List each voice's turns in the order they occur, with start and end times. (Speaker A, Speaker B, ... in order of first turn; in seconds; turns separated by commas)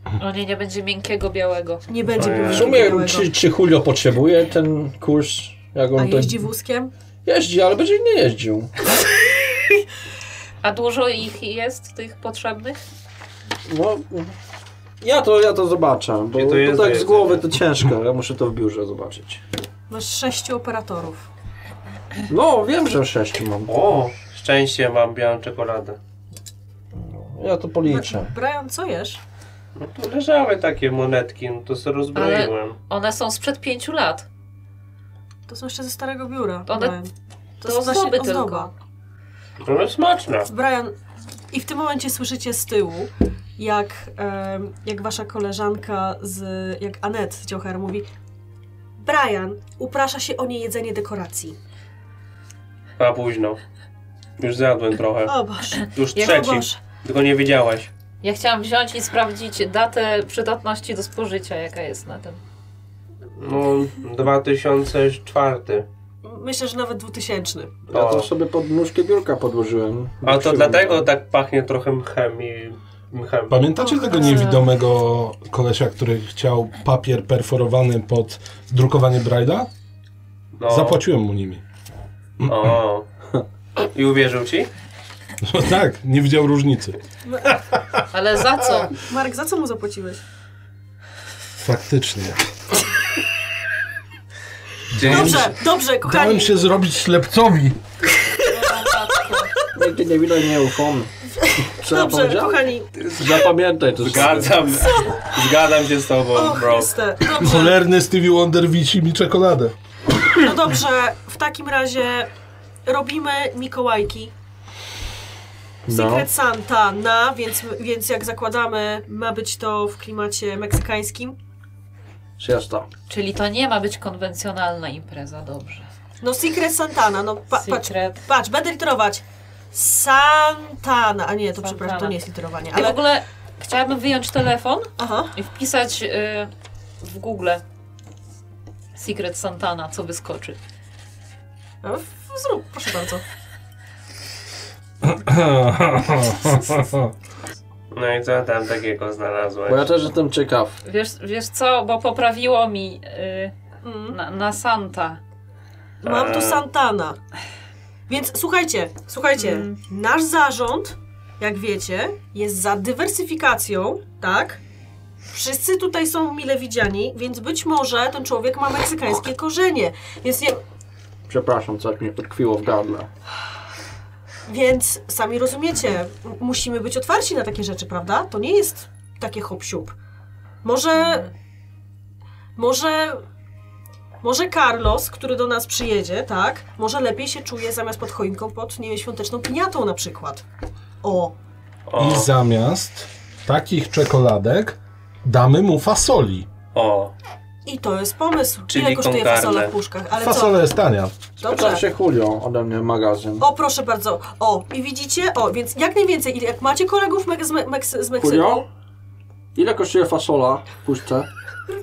Speaker A: 0.2-1.9, Speaker B: 1.9-3.3, Speaker C: 2.1-2.9, Speaker D: 2.5-6.4, Speaker B: 6.0-6.9, Speaker D: 7.2-8.7, Speaker A: 10.6-12.8, Speaker D: 13.7-14.3, Speaker D: 15.0-19.4, Speaker C: 16.3-17.4, Speaker B: 19.9-21.3, Speaker D: 22.3-23.7, Speaker C: 23.7-26.0, Speaker D: 26.9-28.3, Speaker B: 27.9-29.2, Speaker C: 29.8-32.8, Speaker A: 32.1-34.3, Speaker B: 35.5-37.1, Speaker A: 36.7-37.0, Speaker B: 37.6-38.7, Speaker A: 37.6-38.7, Speaker C: 39.6-40.5, Speaker B: 40.5-41.0, Speaker B: 41.5-48.1, Speaker B: 49.0-51.6, Speaker C: 53.0-53.6, Speaker C: 54.4-55.3, Speaker B: 55.2-56.8, Speaker C: 55.9-57.9, Speaker A: 56.2-56.6, Speaker A: 58.2-62.4, Speaker C: 63.4-65.9, Speaker B: 66.2-67.7, Speaker D: 67.9-71.1, Speaker C: 67.9-68.3, Speaker C: 70.2-73.6, Speaker E: 73.5-79.7, Speaker A: 74.0-74.4, Speaker C: 80.6-81.0, Speaker E: 80.7-81.6, Speaker C: 82.5-83.1, Speaker C: 83.9-84.7, Speaker E: 85.4-88.0, Speaker B: 87.3-87.5, Speaker A: 88.1-89.0, Speaker E: 88.6-88.9, Speaker B: 89.0-90.2, Speaker E: 91.6-92.5, Speaker E: 94.9-97.8, Speaker C: 95.0-95.4, Speaker B: 95.0-96.5, Speaker A: 98.4-99.7, Speaker D: 99.7-101.1, Speaker B: 101.3-103.0, Speaker D: 101.7-104.7, Speaker C: 103.0-103.5, Speaker C: 104.0-106.9, Speaker B: 104.8-105.2, Speaker B: 106.3-107.8, Speaker E: 107.3-109.7, Speaker B: 110.3-112.3, Speaker B: 112.9-114.3, Speaker D: 115.9-116.3, Speaker B: 115.9-121.4, Speaker D: 122.4-122.9, Speaker A: 123.1-125.9, Speaker B: 126.2-133.0, Speaker A: 127.5-128.2, Speaker A: 131.6-132.2, Speaker A: 132.7-136.5, Speaker B: 135.0-135.3, Speaker A: 137.0-137.6, Speaker A: 139.0-140.6, Speaker B: 141.8-143.2, Speaker E: 145.0-147.1, Speaker C: 147.9-149.9, Speaker D: 149.7-150.8, Speaker A: 150.8-153.5, Speaker B: 153.8-154.2, Speaker A: 154.1-155.2, Speaker B: 156.0-157.2, Speaker C: 156.1-156.7, Speaker B: 158.1-164.6, Speaker A: 159.4-159.8, Speaker B: 165.3-170.6, Speaker D: 171.3-173.1, Speaker B: 174.5-179.9, Speaker B: 180.6-181.3, Speaker B: 182.6-183.2, Speaker B: 184.2-190.4, Speaker B: 191.0-191.4, Speaker C: 191.9-192.3, Speaker E: 192.0-196.5, Speaker C: 196.8-197.1, Speaker B: 197.7-200.7, Speaker C: 198.7-199.7, Speaker E: 200.1-201.2, Speaker B: 201.4-201.9, Speaker D: 201.4-203.4, Speaker B: 203.4-208.7, Speaker D: 208.2-208.7, Speaker D: 209.6-211.3